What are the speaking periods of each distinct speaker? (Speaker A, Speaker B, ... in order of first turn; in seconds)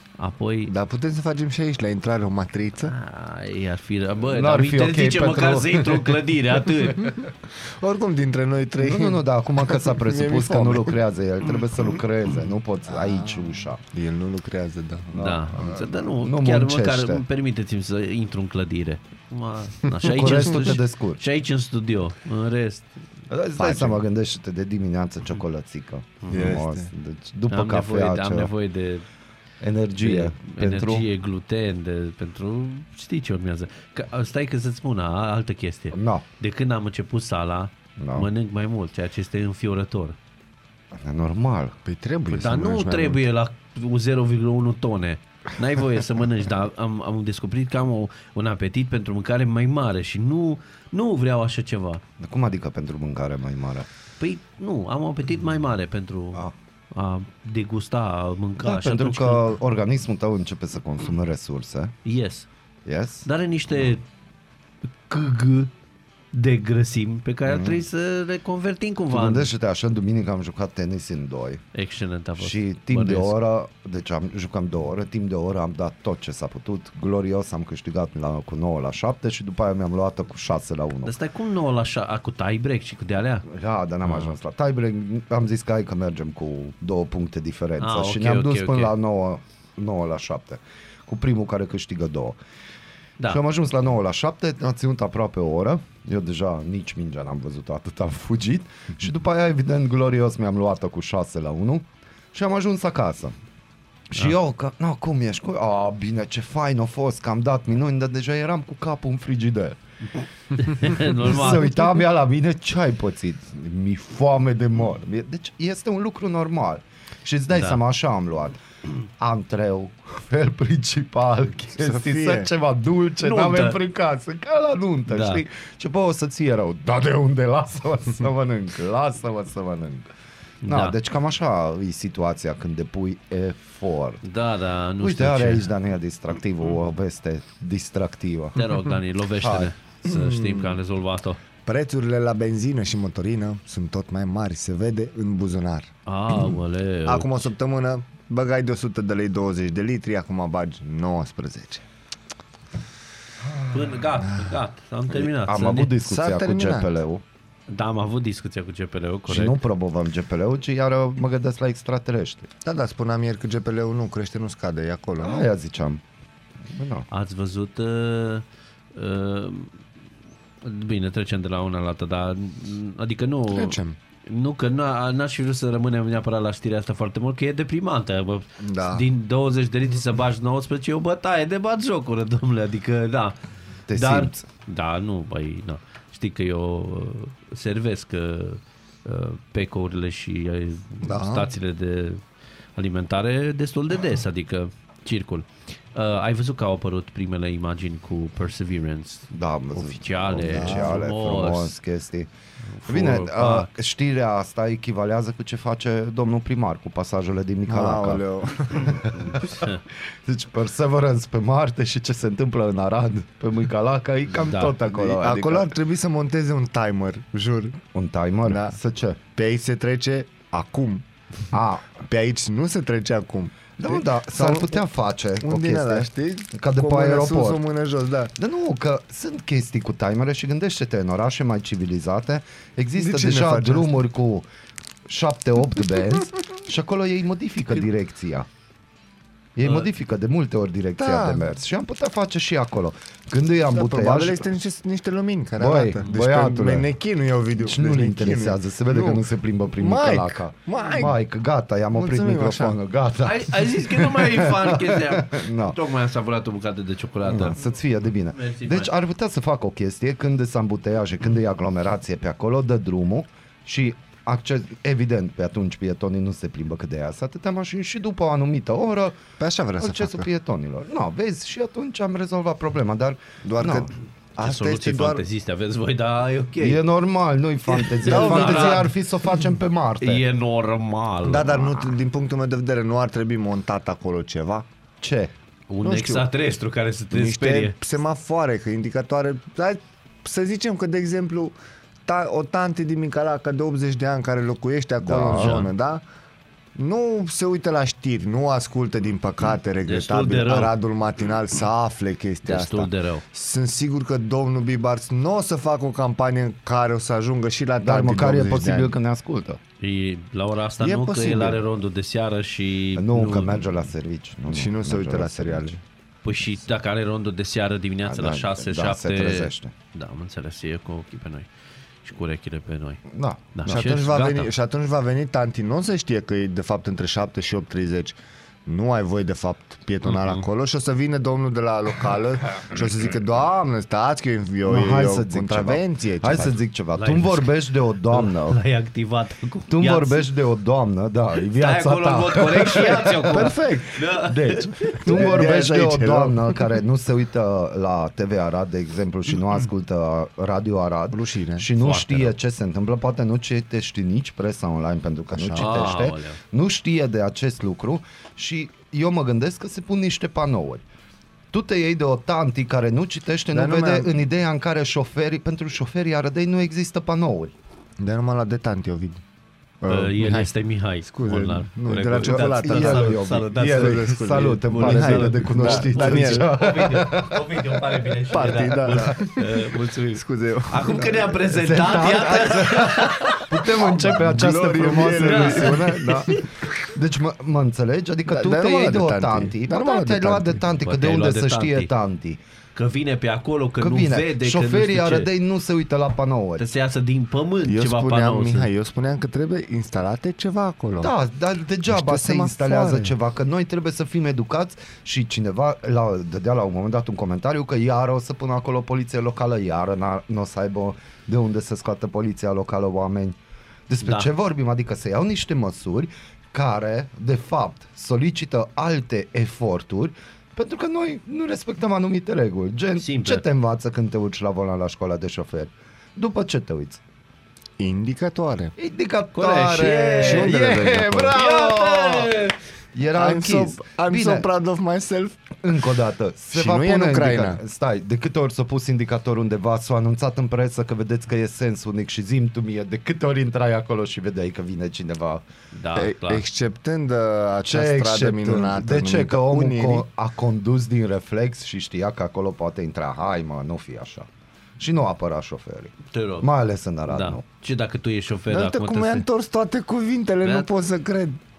Speaker A: 0.2-0.7, 2.8-7.2, 15.2-23.0, 27.5-29.1, 30.0-40.2, 42.3-52.0, 54.2-59.5, 62.0-62.5, 63.2-64.0, 65.1-65.7, 66.3-69.5, 71.8-73.3, 81.0-83.5, 87.8-88.9, 110.6-111.7, 117.5-117.8, 123.2-123.8, 125.1-125.4, 130.6-131.0, 134.2-135.7, 138.6-141.4, 146.1-147.5, 153.7-155.9, 157.7-159.6, 167.1-169.7, 170.6-183.4, 183.9-192.2, 192.8-201.7, 202.8-203.7, 209.2-209.8, 214.4-214.8, 253.2-257.6, 258.3-258.9, 274.4-276.8, 277.8-278.9, 280.0-281.7, 285.7-287.8, 295.3-295.7, 299.9-300.7, 302.4-303.2, 309.8-313.8, 316.2-321.5, 322.0-324.5, 330.0-330.5, 337.0-337.5, 338.1-340.3, 341.5-345.3, 351.8-352.3, 355.6-356.4, 369.9-384.0, 385.2-386.4, 390.8-391.9, 392.8-395.3, 396.6-398.7, 414.0-414.3, 423.0-423.4, 429.4-430.7, 431.3-432.6, 445.7-446.4, 456.1-456.5, 457.1-459.2
Speaker B: 0.7-2.9, 7.0-11.0, 12.9-15.1, 23.6-24.0, 26.3-26.9, 41.9-43.2, 121.8-122.5, 140.1-140.8, 141.7-151.8, 154.2-154.6, 156.1-156.9, 162.6-165.4, 173.5-174.0, 178.6-179.1, 191.0-191.5, 200.4-201.0, 207.7-209.0, 214.9-217.8, 218.4-218.8, 219.4-221.1, 222.0-224.8, 225.4-228.3, 233.0-233.9, 241.0-241.5, 243.7-251.2, 251.9-252.8, 269.4-270.3, 273.4-275.2, 278.0-278.9, 281.2-284.7, 285.8-286.3, 287.1-291.6, 292.1-296.0, 296.8-308.9, 310.8-311.6, 314.5-315.8, 323.6-336.6, 343.3-344.0, 345.0-346.7, 351.1-351.7, 355.3-355.9, 363.5-364.1, 368.0-369.2, 369.8-370.5, 371.0-376.6, 378.3-381.4, 383.8-386.4, 388.3-390.6, 397.7-401.1, 401.9-403.1, 427.8-428.7, 430.2-431.4, 433.1-435.6, 436.5-437.6, 445.9-450.1, 458.5-461.4
Speaker C: 4.3-6.2, 8.8-13.8, 15.1-17.2, 20.0-21.2, 23.3-28.5, 29.6-31.1, 35.9-36.2, 38.0-38.3, 40.9-41.8, 52.2-53.9, 58.6-62.0, 62.9-63.3, 67.5-67.8, 69.1-71.6, 72.4-81.1, 83.5-92.4, 93.3-103.4, 104.1-109.8, 110.8-118.6, 119.2-130.1, 130.7-134.2, 135.0-138.6, 139.4-139.7, 153.4-153.9, 155.3-157.2, 159.3-162.5, 165.2-166.0, 166.7-167.1, 183.9-184.5, 199.3-202.3, 202.9-209.7, 210.2-215.7, 217.9-219.2, 221.5-222.0, 223.8-227.6, 228.4-234.5, 235.1-238.5, 239.6-244.5, 245.6-246.9, 247.6-255.8, 257.3-269.2, 269.8-273.9, 276.6-280.2, 285.0-285.3, 295.0-295.6, 307.8-309.6, 312.9-315.8, 318.0-319.7, 323.1-323.5, 334.6-338.6, 339.7-343.5, 344.2-360.9, 361.5-367.5, 372.3-377.8, 378.9-379.1, 381.5-392.4, 393.8-396.7, 401.0-413.4, 413.9-427.0, 428.8-432.4, 432.9-434.5, 435.6-445.4, 447.6-454.3, 454.8-457.4